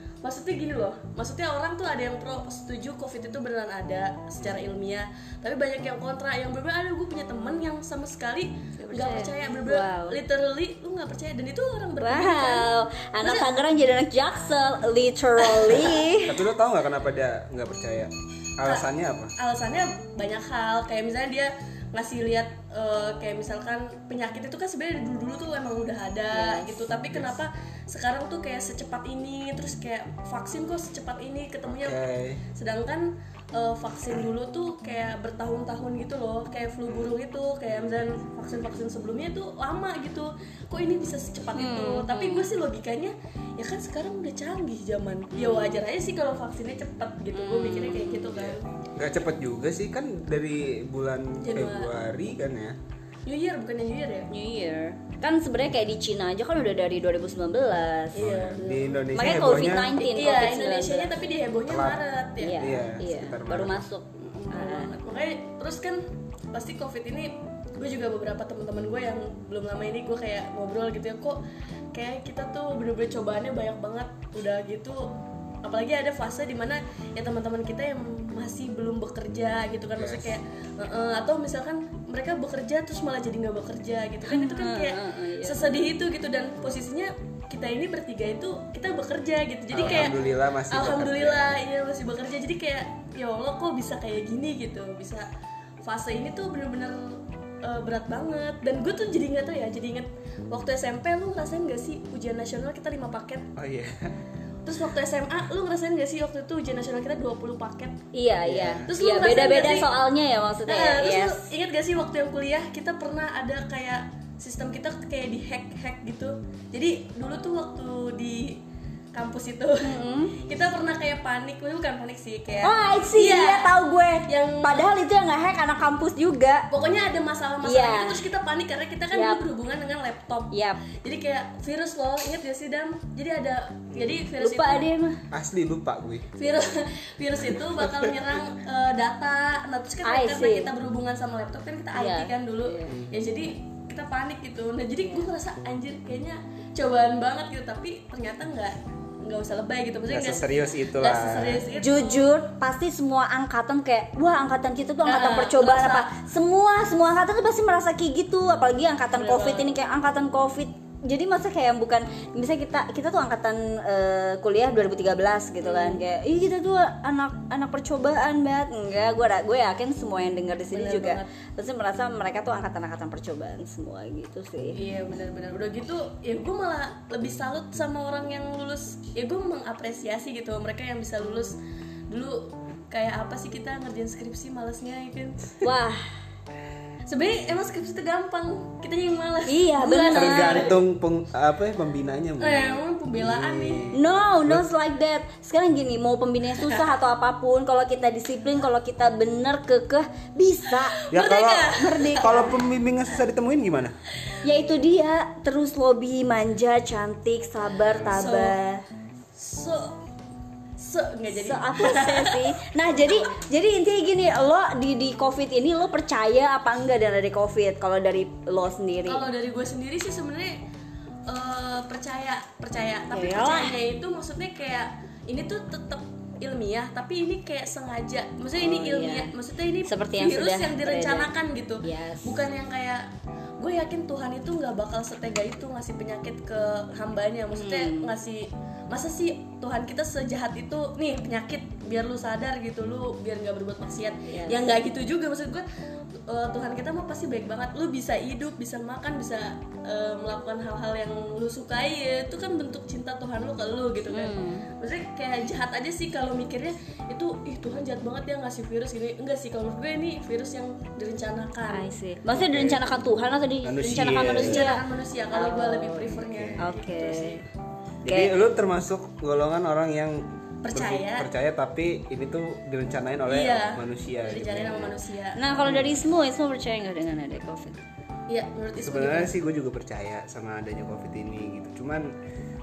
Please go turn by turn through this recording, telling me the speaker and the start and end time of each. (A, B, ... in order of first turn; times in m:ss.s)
0:00.2-0:12.7 A
0:08.8-0:10.2 B
0:12.0-0:16.4 B
0:13.2-0:13.5 A
0:15.4-0:16.0 A
0:16.2-0:19.3 C
0:18.6-0:32.0 A
0:26.3-0:26.9 B
0:31.7-0:32.4 C
0:32.5-0:48.7 A
0:36.9-0:37.2 C
0:41.6-0:42.5 B
0:45.3-0:45.8 B
0:47.3-0:48.4 B
0:48.4-0:52.8 C
0:51.4-0:51.9 A
0:53.2-0:54.3 A
0:54.3-1:01.2 B
0:58.2-0:58.7 A
0:58.2-1:00.0 C
1:00.0-1:02.8 A
1:01.7-1:02.0 C
1:02.4-1:04.9 B
1:02.6-1:03.8 C
1:04.2-1:11.4 A
1:11.9-1:35.3 A
1:20.0-1:20.4 C
1:24.2-1:25.7 B
1:29.7-1:31.6 C
1:35.8-1:43.5 A
1:43.6-1:44.1 C
1:44.6-1:48.0 A
1:48.1-1:51.5 B
1:48.4-1:48.9 C
1:48.9-1:49.9 A
1:50.7-1:58.6 A
1:59.1-2:03.7 A
1:59.8-2:00.4 B
2:00.4-2:00.7 C
2:02.6-2:06.7 B
2:04.3-2:04.9 A
2:06.7-2:14.9 A
2:07.6-2:08.2 B
2:09.1-2:09.4 B
2:10.5-2:10.8 B
2:13.9-2:14.2 C
2:14.4-2:15.2 B
2:15.3-2:16.3 C
2:16.4-2:32.3 A
2:20.0-2:20.7 B
2:22.0-2:23.0 B
2:25.0-2:25.3 B
2:30.1-2:31.6 C
2:31.8-2:54.8 B
2:35.0-2:36.2 A
2:39.1-2:39.7 A
2:45.6-2:46.0 A
2:50.7-2:51.3 A
2:54.7-3:01.6 A
3:02.1-3:05.6 A
3:05.6-3:06.0 B
3:07.1-3:10.8 A
3:09.5-3:10.7 B
3:10.1-3:14.6 C
3:12.4-3:13.9 A
3:13.9-3:21.0 B
3:20.7-3:22.5 A
3:21.1-3:23.9 C
3:21.8-3:22.6 B
3:24.4-3:28.8 B
3:28.1-3:28.6 A
3:29.4-3:30.0 A
3:30.8-3:32.5 A
3:31.4-3:39.3 B
3:39.1-3:40.6 A
3:41.3-3:53.1 A
3:43.1-3:43.8 B
3:48.6-3:49.3 B
3:49.9-3:51.3 B
3:51.8-3:52.5 B
3:53.6-4:05.6 A
3:57.5-3:58.1 B
4:04.3-4:04.7 B
4:06.3-4:21.9 A
4:14.1-4:14.7 B
4:21.7-4:27.4 B
4:22.3-4:22.9 C
4:23.6-4:24.7 C
4:24.0-4:27.4 A
4:26.1-4:26.8 C
4:28.0-4:34.9 C
4:28.1-4:28.4 B
4:30.6-4:31.3 A
4:33.3-4:35.4 A
4:35.4-4:37.9 B
4:35.6-4:36.0 C
4:38.3-4:39.3 A
4:38.8-4:42.1 C